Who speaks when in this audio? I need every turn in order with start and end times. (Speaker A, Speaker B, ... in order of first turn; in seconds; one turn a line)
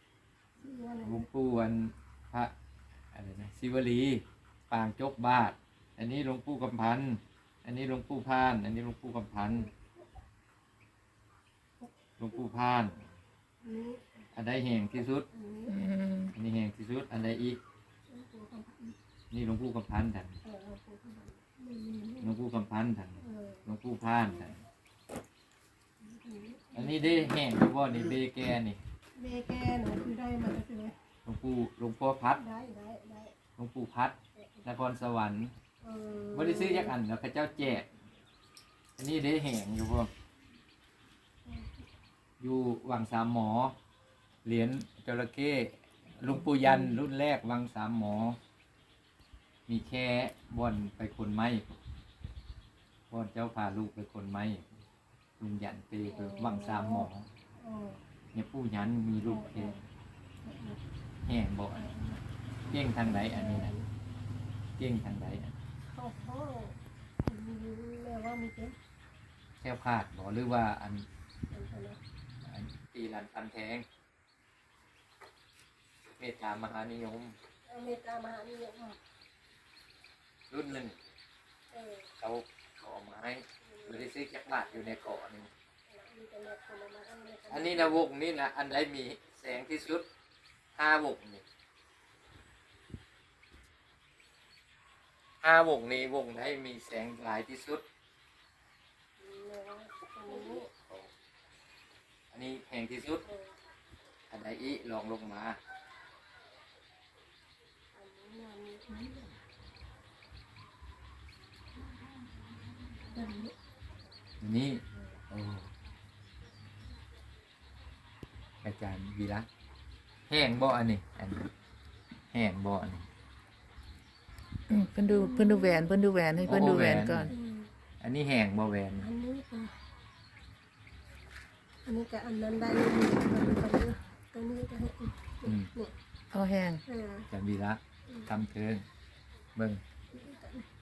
Speaker A: 0.6-1.3
Speaker B: 1.0-2.5
Speaker B: 3.1-9.7
Speaker B: 12.2-13.0
Speaker A: 13.6-14.0
Speaker B: 14.3-15.3
Speaker A: 15.3-15.9
Speaker C: 15.7-16.3
Speaker B: 16.3-17.6
Speaker A: 18.1-19.0
Speaker B: 19.3-20.4
Speaker A: 20.4-22.3
Speaker B: 22.2-24.6
Speaker A: 23.2-23.7
Speaker A: 26.0-27.3
Speaker B: 26.8-28.8
Speaker A: 29.2-30.9
Speaker B: 31.3-32.4
Speaker A: 32.3-33.3
Speaker B: 33.6-35.5
Speaker A: 34.4-34.7
Speaker A: 35.8-37.0
Speaker B: 36.3-37.9
Speaker B: 39.0-40.1
Speaker A: 41.5-41.9
Speaker B: 42.4-43.8
Speaker B: 44.5-48.4
Speaker B: 49.7-51.6
Speaker B: 53.1-54.7
Speaker B: 55.4-57.3
Speaker A: 56.1-58.0
Speaker B: 58.3-59.8
Speaker A: 59.2-59.8
Speaker A: 60.4-60.8
Speaker B: 61.2-61.8
Speaker A: 61.8-62.2
Speaker B: 62.7-63.7
Speaker A: 63.0-63.9
Speaker B: 64.8-65.5
Speaker A: 65.9-68.8
Speaker B: 69.6-71.1
Speaker A: 71.5-72.0
Speaker B: 72.4-73.8
Speaker B: 76.2-77.3
Speaker A: 77.7-79.0
Speaker B: 80.5-81.0
Speaker A: 81.7-82.1
Speaker B: 82.2-85.5
Speaker A: 83.6-84.1
Speaker A: 84.7-85.0
Speaker A: 85.9-88.0
Speaker B: 87.5-90.0
Speaker B: 90.8-91.4
Speaker B: 95.4-97.8
Speaker A: 99.2-100.7
Speaker B: 100.7-101.1
Speaker B: 102.3-103.2
Speaker A: 103.2-103.5
Speaker B: 104.3-105.6
Speaker A: 107.9-109.4
Speaker A: 113.0-113.5
Speaker B: 114.4-115.7
Speaker B: 118.6-119.5
Speaker B: 120.3-121.5
Speaker B: 122.3-123.1
Speaker C: 124.7-127.3
Speaker A: 125.0-126.8
Speaker B: 126.5-127.3
Speaker A: 127.3-127.7
Speaker B: 128.0-129.1
Speaker A: 129.0-129.7
Speaker A: 131.9-135.9
Speaker C: 136.3-136.8
Speaker A: 136.9-137.3
Speaker B: 137.3-138.8
Speaker B: 139.6-139.8
Speaker A: 140.1-140.7